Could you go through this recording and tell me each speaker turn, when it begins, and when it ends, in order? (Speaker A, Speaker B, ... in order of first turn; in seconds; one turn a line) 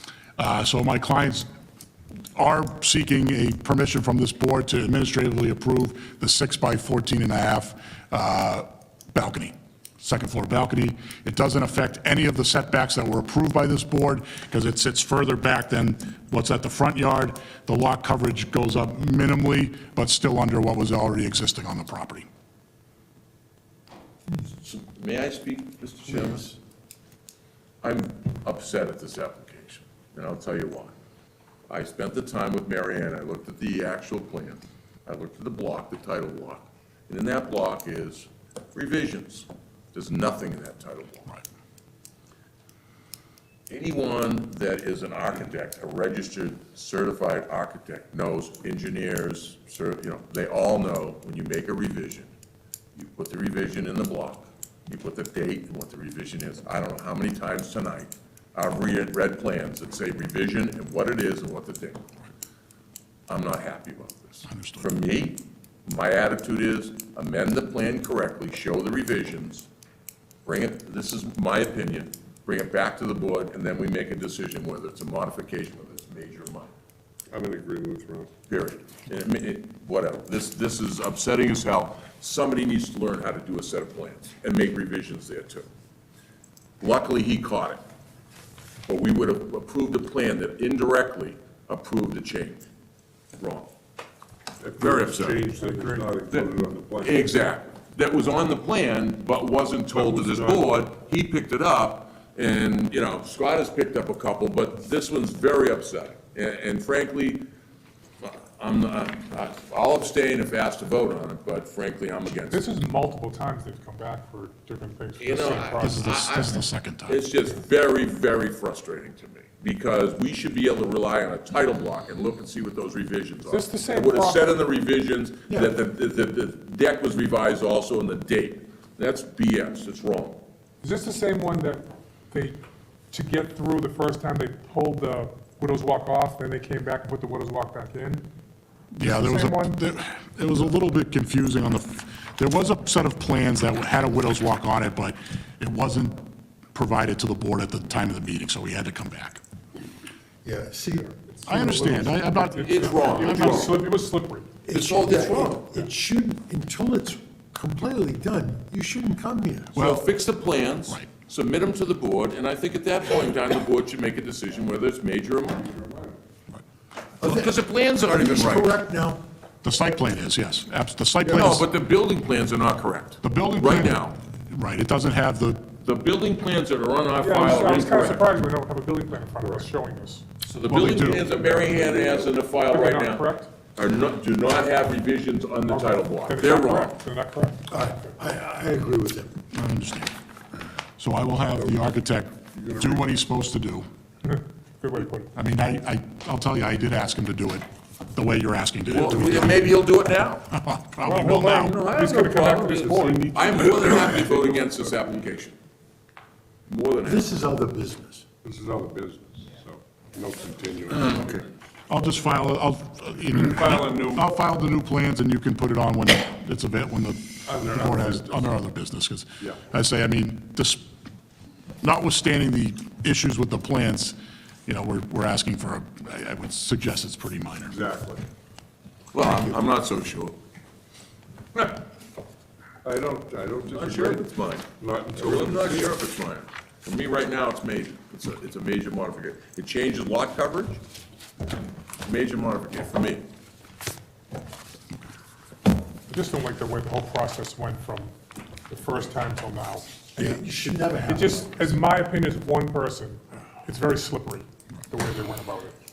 Speaker A: 0.4-1.5
Speaker A: 2.3-22.2
Speaker B: 24.4-26.6
Speaker B: 27.8-30.9
Speaker B: 31.7-41.3
Speaker B: 43.7-52.3
Speaker B: 53.0-62.0
Speaker B: 63.3-69.7
Speaker A: 64.5-64.9
Speaker B: 70.4-76.7
Speaker C: 77.3-78.3
Speaker B: 78.5-85.7
Speaker B: 86.8-87.8
Speaker B: 88.8-92.6
Speaker B: 93.4-93.7
Speaker C: 94.6-97.3
Speaker B: 94.8-95.5
Speaker D: 95.5-96.5
Speaker B: 96.3-107.4
Speaker C: 99.9-100.6
Speaker B: 108.2-112.7
Speaker D: 112.5-116.1
Speaker B: 115.2-130.4
Speaker A: 115.8-117.2
Speaker D: 123.5-124.6
Speaker D: 130.8-132.6
Speaker D: 133.1-138.2
Speaker A: 138.9-149.4
Speaker D: 139.0-139.9
Speaker E: 150.4-151.1
Speaker D: 151.3-154.5
Speaker A: 151.5-153.7
Speaker B: 152.6-153.7
Speaker C: 153.4-153.7
Speaker E: 154.7-159.7
Speaker B: 154.7-155.6
Speaker A: 159.7-160.1
Speaker B: 159.7-165.7
Speaker C: 165.6-166.2
Speaker B: 167.2-168.7
Speaker E: 167.2-167.5
Speaker E: 168.1-169.2
Speaker A: 169.6-171.7
Speaker B: 171.2-174.2
Speaker A: 173.2-175.7
Speaker B: 175.8-178.2
Speaker D: 177.2-180.2
Speaker B: 180.4-187.0
Speaker A: 180.7-181.4
Speaker D: 181.5-183.5
Speaker D: 185.7-187.7
Speaker E: 187.7-189.3
Speaker A: 189.5-190.1
Speaker A: 191.0-193.8
Speaker C: 192.5-193.1
Speaker D: 194.3-195.3
Speaker A: 195.3-199.8
Speaker B: 198.9-200.5
Speaker A: 200.5-201.8
Speaker D: 201.0-203.9
Speaker B: 201.5-205.5
Speaker C: 202.8-204.7
Speaker B: 206.7-207.3
Speaker E: 207.0-208.2
Speaker C: 208.4-211.4
Speaker A: 211.9-220.9
Speaker C: 213.5-214.1
Speaker C: 217.5-218.0
Speaker A: 221.8-227.8
Speaker C: 227.7-228.2
Speaker B: 229.1-230.3
Speaker C: 232.8-235.9
Speaker B: 233.7-240.8
Speaker B: 242.0-243.2
Speaker D: 246.1-248.1
Speaker D: 248.7-249.9
Speaker E: 250.2-251.5
Speaker D: 251.1-255.8